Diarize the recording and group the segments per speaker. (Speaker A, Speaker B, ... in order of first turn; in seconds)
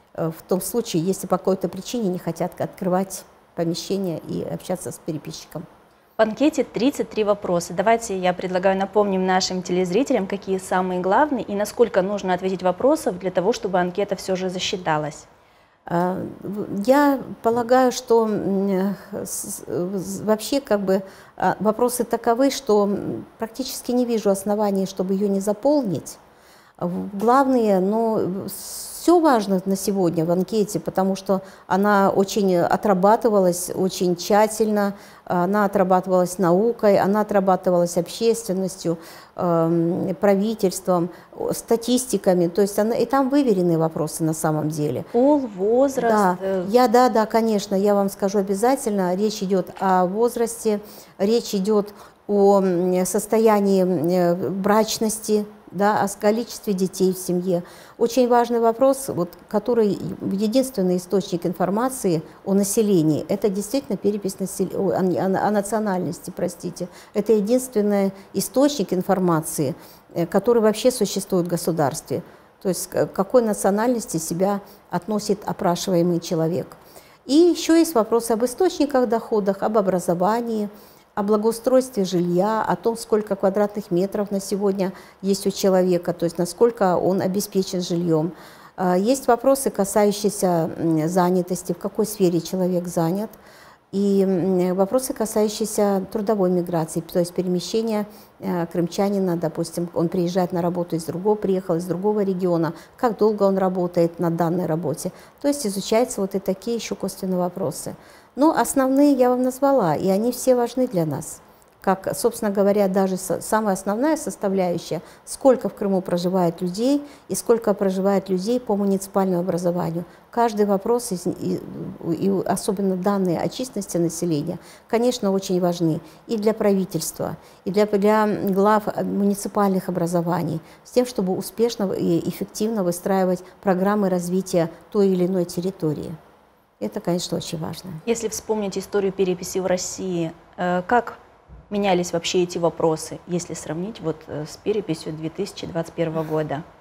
Speaker A: 0.1-5.7, 15.9-26.2, 26.8-45.1, 46.0-93.3, 93.9-136.2, 136.8-138.0
Speaker B: 6.2-15.3, 45.1-46.7, 138.1-141.2, 141.7-146.6